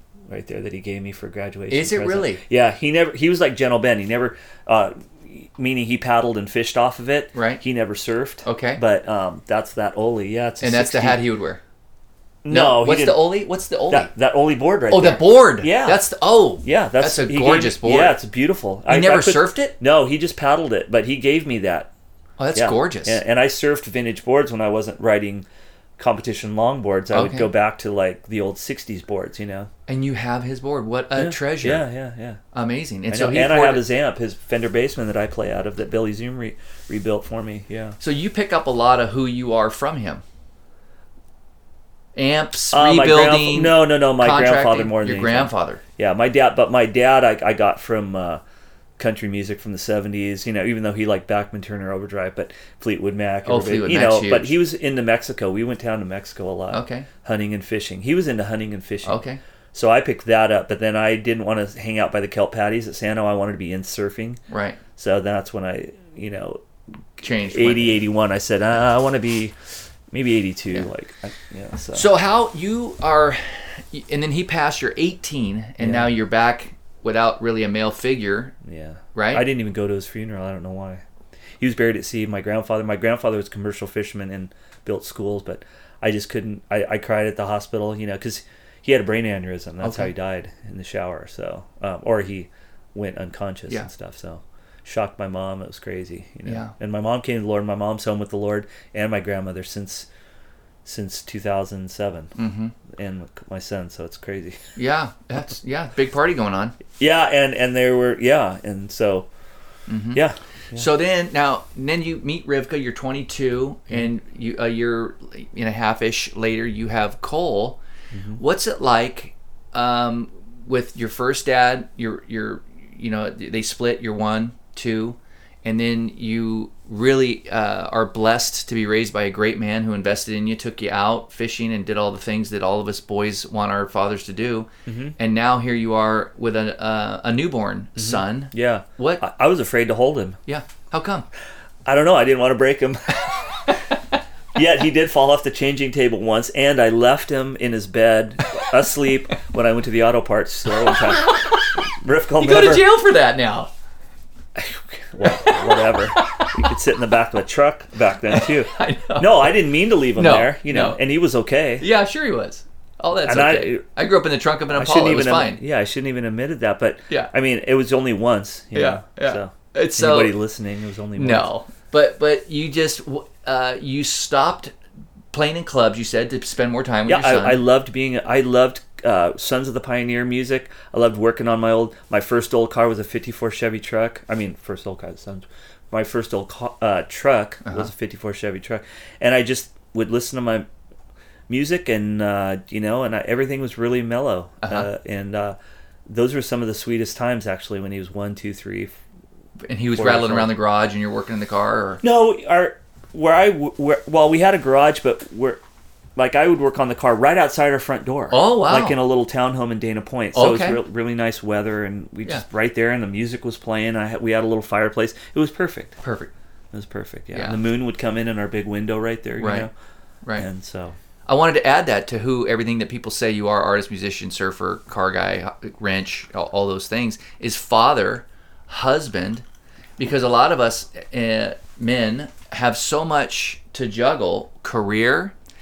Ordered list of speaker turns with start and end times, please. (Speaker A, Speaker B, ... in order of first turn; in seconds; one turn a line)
Speaker A: 0.3-11.2
Speaker B: 1.7-2.4
Speaker B: 7.3-7.6
Speaker B: 8.4-8.8
Speaker B: 10.6-11.6
Speaker A: 12.4-13.3
Speaker B: 12.5-14.1
Speaker A: 13.9-16.0
Speaker B: 14.9-18.2
Speaker A: 16.6-21.9
Speaker B: 18.9-19.8
Speaker B: 22.4-23.2
Speaker A: 22.6-25.5
Speaker A: 26.0-29.7
Speaker B: 27.1-27.5
Speaker B: 29.9-31.9
Speaker A: 31.2-32.4
Speaker B: 32.5-33.9
Speaker A: 33.1-38.0
Speaker B: 38.0-40.2
Speaker B: 42.1-45.8
Speaker A: 42.7-48.4
Speaker A: 49.0-59.2
Speaker B: 53.4-54.5
Speaker B: 56.7-57.1
Speaker B: 59.0-59.4
Speaker A: 59.7-64.4
Speaker B: 64.5-64.8
Speaker A: 65.0-66.6
Speaker B: 67.2-68.0
Speaker A: 67.2-69.6
Speaker A: 70.1-72.1
Speaker B: 71.9-78.5
Speaker A: 75.8-76.1
Speaker A: 78.6-81.0
Speaker B: 79.1-79.4
Speaker A: 81.6-100.1
Speaker B: 89.8-90.1
Speaker B: 96.5-96.7
Speaker A: 100.8-102.3
Speaker B: 102.4-102.8
Speaker A: 102.9-104.6
Speaker B: 104.8-106.8
Speaker A: 107.0-109.3
Speaker B: 109.9-117.8
Speaker A: 110.1-110.9
Speaker A: 118.1-118.4
Speaker B: 118.4-139.2
Speaker A: 134.9-135.2
Speaker A: 138.0-140.4
Speaker B: 140.5-141.3
Speaker A: 141.9-143.7
Speaker A: 144.6-152.9
Speaker B: 150.9-151.7
Speaker B: 152.4-153.7
Speaker A: 154.6-161.9
Speaker B: 155.2-156.6
Speaker B: 158.3-159.6
Speaker B: 160.1-161.0
Speaker B: 161.8-165.6
Speaker A: 163.3-163.8
Speaker A: 164.7-171.5
Speaker B: 168.7-170.4
Speaker B: 171.2-174.7
Speaker B: 175.3-177.6
Speaker A: 177.1-190.7
Speaker A: 191.5-198.9
Speaker B: 194.6-194.9
Speaker B: 199.7-202.0
Speaker A: 200.0-200.5
Speaker A: 202.0-205.6
Speaker A: 206.2-216.0
Speaker B: 208.3-209.0
Speaker B: 210.3-210.8
Speaker B: 216.0-216.3
Speaker A: 216.7-219.7
Speaker B: 217.3-217.6
Speaker B: 219.4-219.7
Speaker A: 220.4-221.0
Speaker B: 221.3-229.4
Speaker B: 230.0-235.3